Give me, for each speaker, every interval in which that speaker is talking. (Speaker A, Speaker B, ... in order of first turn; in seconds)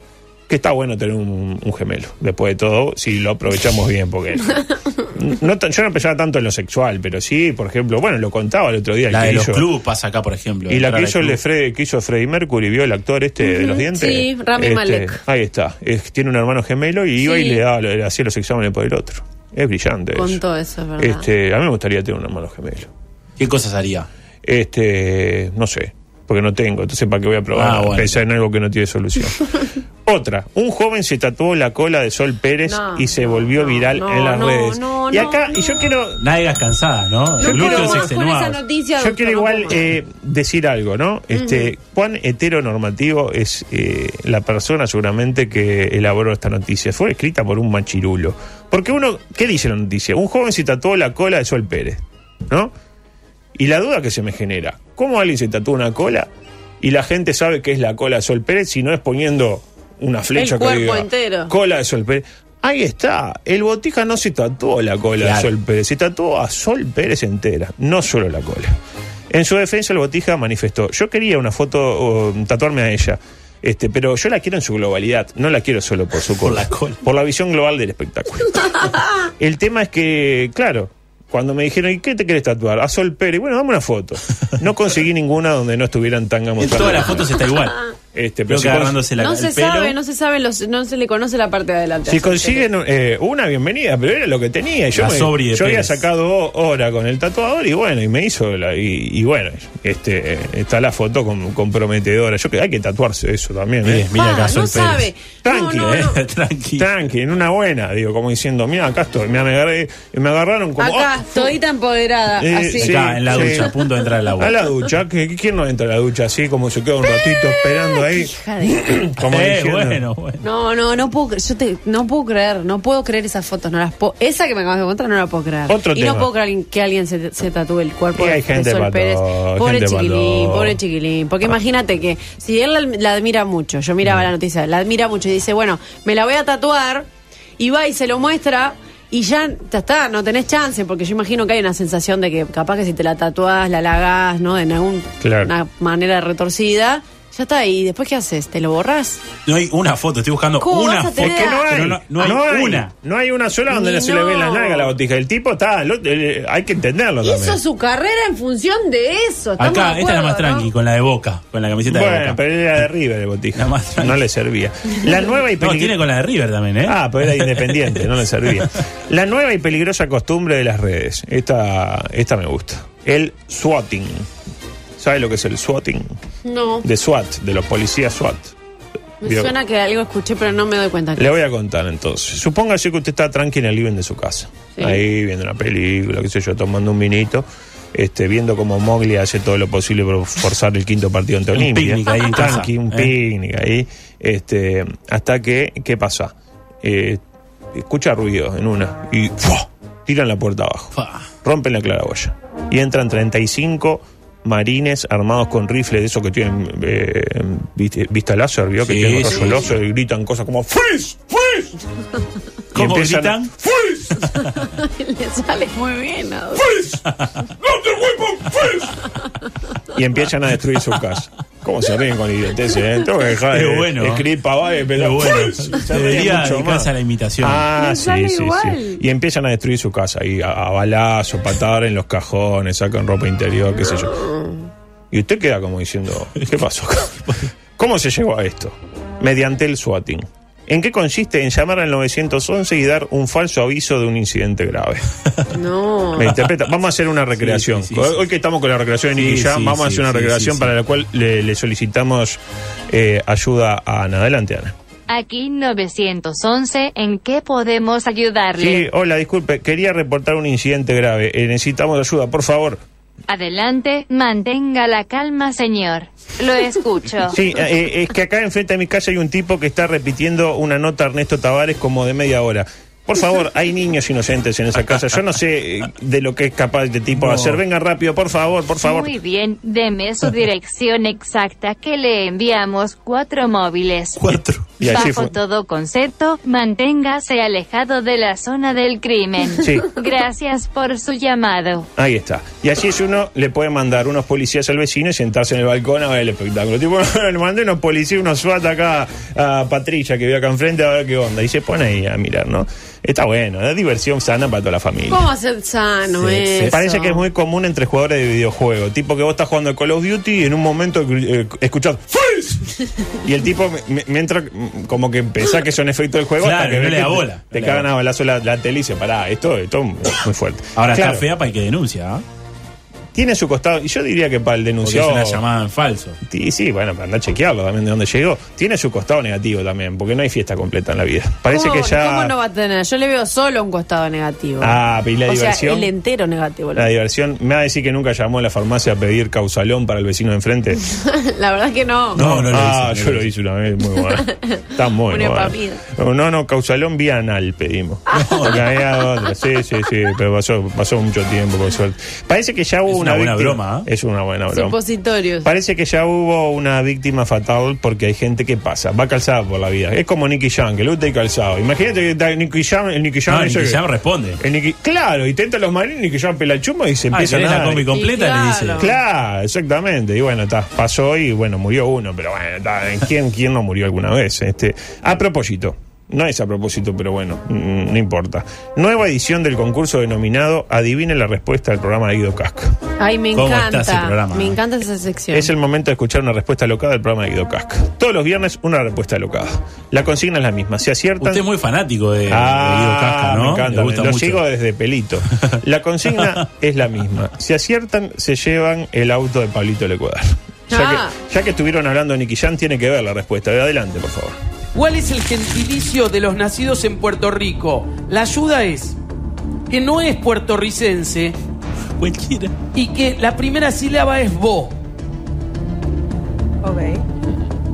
Speaker A: 0.5-9.7, 10.7-20.4, 21.0-22.9, 24.4-36.2, 37.4-38.1, 39.0-52.7, 53.5-56.3, 56.8-68.7, 69.3-87.4, 88.2-89.0, 92.1-104.1, 105.4-106.1, 106.8-111.6, 112.4-113.7, 114.4-120.0, 125.7-126.3, 128.1-130.8, 145.2-145.5, 151.2-157.6, 161.9-166.0, 166.8-174.3, 175.0-176.2, 176.8-178.6, 179.2-179.5, 181.2-197.2, 197.7-211.7, 212.7-214.2, 217.7-218.9, 219.9-234.2, 235.1-245.1, 246.2-254.7, 258.6-262.8, 267.3-279.1, 284.8-285.4, 289.6-289.9, 292.0-305.2, 306.7-321.3, 323.1-325.4, 326.2-332.3, 334.6-335.9, 336.8-340.8, 342.1-354.8, 355.4-363.8, 364.4-367.9, 368.8-382.8, 385.3-391.4, 392.3-404.4
Speaker B: 9.1-11.4, 23.4-24.1, 27.6-28.2, 36.2-38.6, 65.2-65.5, 76.4-77.0, 86.6-87.8, 88.5-90.0, 95.0-96.0, 103.8-105.1, 105.8-106.9, 112.8-114.6, 119.2-120.4, 149.5-152.9, 159.6-162.4, 163.6-164.2, 165.6-168.7, 191.6-193.2, 200.9-201.3, 208.8-209.8, 212.7-214.6, 217.1-217.3, 218.5-218.8, 223.5-224.3, 224.9-227.7, 237.2-237.5, 247.4-248.2, 249.2-250.7, 277.2-277.6, 284.2-285.0, 306.2-306.8, 316.4-317.9, 320.8-322.2, 324.8-326.2, 342.1-343.3, 348.1-348.6, 352.9-353.9, 363.3-364.4, 367.1-368.9, 383.3-384.6, 391.2-394.4, 412.0-412.5
Speaker C: 13.4-15.2, 17.2-17.6, 20.1-21.3, 32.7-35.9, 37.4-39.8, 41.3-41.7, 60.4-61.5, 89.2-92.6, 104.1-106.2, 110.8-113.7, 117.2-118.9, 120.4-137.1, 137.6-149.2, 150.6-151.7, 153.7-154.9, 157.2-160.7, 176.4-176.9, 179.2-181.4, 184.8-185.0, 214.4-216.7, 227.8-229.0, 234.1-234.6, 245.5-246.3, 305.1-307.2, 331.5-336.9, 340.8-342.2, 344.0-345.8, 348.2-348.5, 354.5-355.5, 367.9-368.9, 383.0-385.5, 400.7-401.2
Speaker D: 255.1-258.9, 263.3-267.4, 278.8-291.9
Speaker E: 404.7-409.0, 409.7-411.4, 412.7-414.8, 416.6-417.0